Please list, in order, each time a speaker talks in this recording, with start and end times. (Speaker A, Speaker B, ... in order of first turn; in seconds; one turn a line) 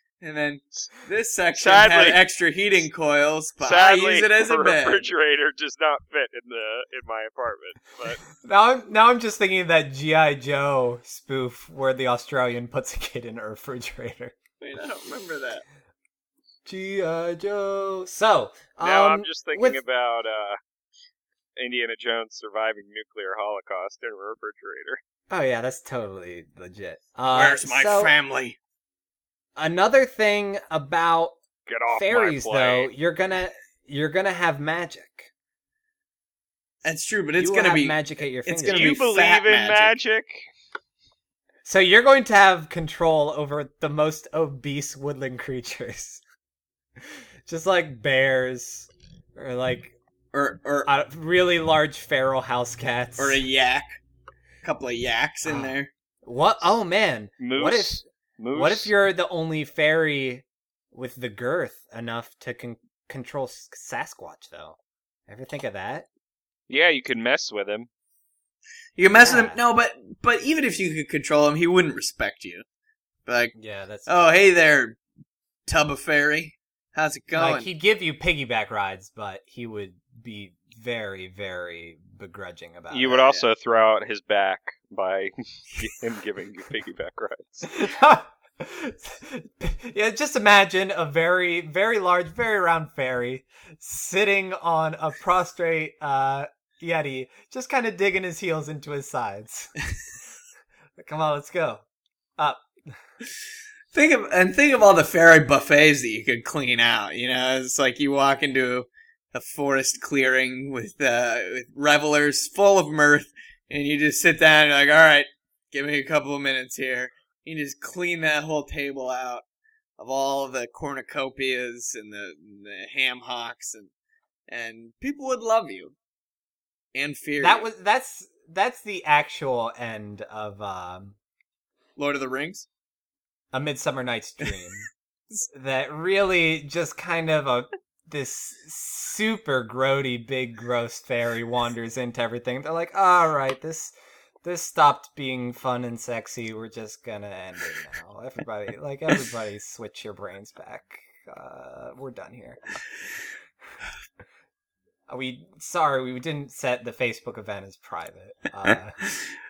Speaker A: 0.2-5.1
Speaker B: 1.6-2.2
Speaker B: 3.6-8.2
Speaker C: 8.3-14.4
Speaker A: 14.6-15.6
Speaker C: 16.6-19.8
Speaker B: 18.8-20.6
Speaker B: 21.6-25.0
Speaker C: 25.3-28.1
Speaker A: 27.3-28.6
Speaker C: 29.6-31.4
Speaker B: 31.7-32.9
Speaker C: 31.9-35.3
Speaker A: 36.8-39.9
Speaker C: 37.4-39.0
Speaker B: 38.7-40.4
Speaker C: 41.6-46.2
Speaker C: 47.0-49.9
Speaker A: 50.3-50.9
Speaker C: 50.9-53.4
Speaker A: 53.2-53.9
Speaker A: 54.6-55.9
Speaker C: 55.4-55.7
Speaker C: 56.2-64.8
Speaker B: 57.4-58.9
Speaker C: 65.3-66.1
Speaker B: 66.7-67.9
Speaker A: 69.0-72.6
Speaker C: 69.1-69.6
Speaker A: 73.2-73.5
Speaker C: 73.6-74.3
Speaker A: 74.1-75.0
Speaker A: 75.7-77.7
Speaker C: 77.3-83.2
Speaker B: 82.9-87.8
Speaker A: 83.1-83.5
Speaker C: 87.7-99.7
Speaker C: 101.0-101.8
Speaker C: 102.4-102.6
Speaker A: 103.9-119.4
Speaker A: 120.0-123.9
Speaker A: 124.5-125.9
Speaker A: 126.9-127.7
Speaker C: 127.4-131.2
Speaker A: 132.0-132.7
Speaker C: 133.5-134.9
Speaker C: 135.5-152.8
Speaker C: 155.1-159.0